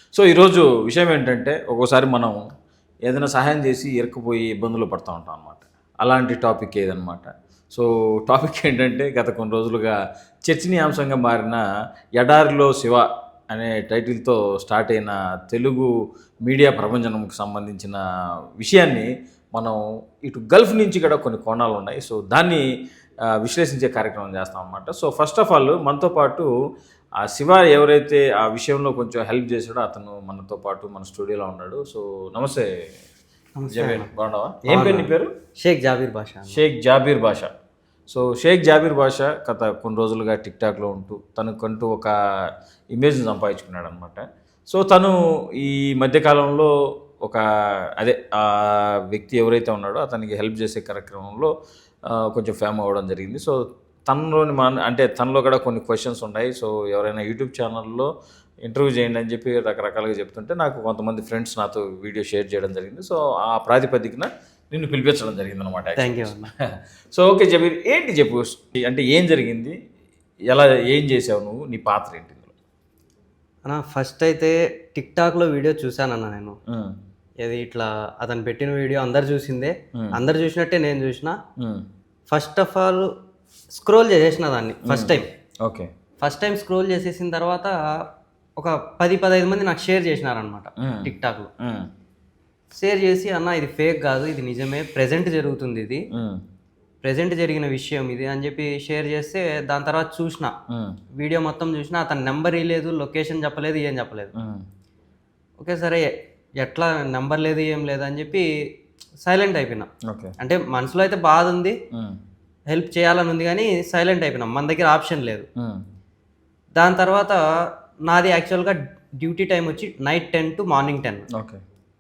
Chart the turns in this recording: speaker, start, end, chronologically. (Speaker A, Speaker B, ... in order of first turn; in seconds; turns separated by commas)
Speaker A: 0.1-2.4, Speaker A: 3.1-10.0, Speaker A: 10.5-11.6, Speaker A: 12.2-15.9, Speaker A: 16.5-18.0, Speaker A: 18.6-22.6, Speaker A: 23.4-26.5, Speaker A: 27.2-32.7, Speaker B: 33.6-34.1, Speaker A: 33.7-35.3, Speaker B: 34.6-36.6, Speaker A: 36.5-37.5, Speaker A: 38.1-42.1, Speaker A: 42.9-46.7, Speaker A: 48.0-51.5, Speaker A: 52.1-58.1, Speaker A: 58.6-69.8, Speaker B: 66.0-66.5, Speaker A: 70.5-72.5, Speaker B: 73.7-76.6, Speaker A: 76.7-77.0, Speaker B: 77.4-81.4, Speaker A: 81.6-81.9, Speaker B: 82.3-83.1, Speaker B: 83.7-85.3, Speaker A: 84.9-85.9, Speaker B: 86.2-87.7, Speaker B: 88.6-91.5, Speaker A: 90.8-91.9, Speaker B: 92.8-96.1, Speaker A: 96.1-96.4, Speaker B: 97.0-100.5, Speaker A: 100.7-101.0, Speaker B: 101.2-104.3, Speaker A: 104.3-104.7, Speaker B: 105.6-108.5, Speaker B: 109.2-109.9, Speaker A: 110.1-110.3, Speaker B: 110.4-111.8, Speaker A: 111.9-112.2, Speaker B: 112.7-115.5, Speaker A: 115.6-115.8, Speaker B: 116.8-117.4, Speaker B: 118.1-121.3, Speaker A: 121.3-121.6